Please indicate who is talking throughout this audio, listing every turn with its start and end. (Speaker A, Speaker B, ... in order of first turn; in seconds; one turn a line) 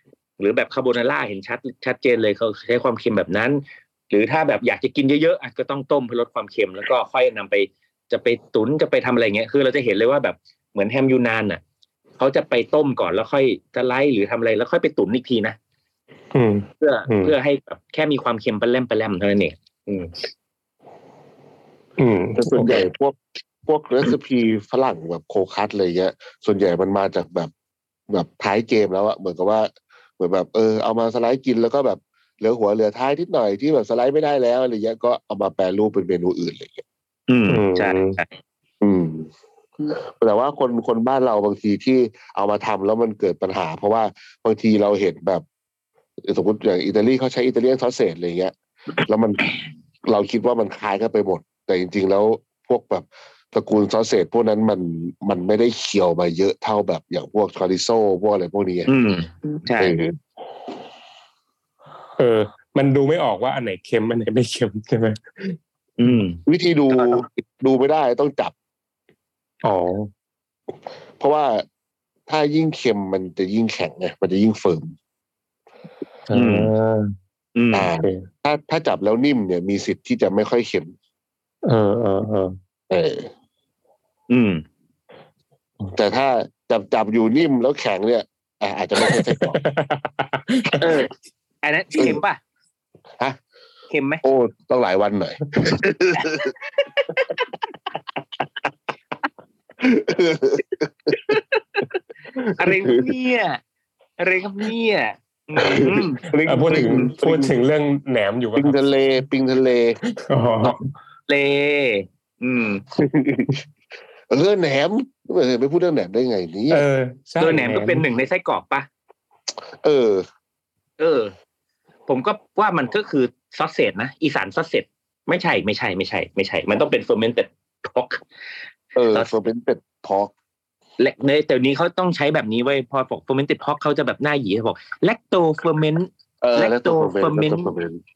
Speaker A: 0.4-11.6
Speaker A: 12.2-15.6
Speaker B: 16.3-17.4
Speaker A: 16.8-20.1
Speaker B: 22.0-22.9
Speaker C: 22.4-27.5
Speaker C: 28.1-36.8
Speaker A: 37.3-38.3
Speaker B: 37.5-38.2
Speaker C: 38.8-39.3
Speaker C: 39.9-45.4
Speaker C: 46.2-58.9
Speaker A: 58.9-60.0
Speaker C: 59.8-60.2
Speaker B: 62.2-66.2
Speaker A: 66.0-66.4
Speaker C: 66.5-68.5
Speaker A: 66.9-67.2
Speaker B: 69.6-70.1
Speaker C: 71.2-71.7
Speaker C: 72.3-75.0
Speaker B: 76.3-77.2
Speaker A: 76.3-76.7
Speaker A: 77.6-77.9
Speaker C: 77.7-81.0
Speaker B: 78.0-78.3
Speaker B: 81.6-82.6
Speaker C: 82.9-83.3
Speaker A: 84.3-84.6
Speaker C: 85.9-89.6
Speaker B: 89.0-90.9
Speaker A: 90.8-91.1
Speaker A: 91.6-92.4
Speaker A: 93.9-94.2
Speaker C: 94.2-96.5
Speaker A: 96.2-97.5
Speaker C: 99.8-101.4
Speaker A: 101.3-101.8
Speaker C: 102.4-103.0
Speaker A: 102.6-103.6
Speaker A: 104.2-107.1
Speaker C: 105.6-107.5
Speaker B: 106.4-108.8
Speaker C: 108.6-110.0
Speaker B: 110.2-110.9
Speaker A: 111.3-112.8
Speaker C: 112.9-113.6
Speaker C: 114.3-116.9
Speaker B: 116.7-118.1
Speaker A: 117.4-118.9
Speaker C: 119.8-120.2
Speaker A: 121.0-121.3
Speaker A: 122.1-128.2
Speaker C: 128.9-130.3
Speaker A: 131.0-137.7
Speaker C: 136.4-138.0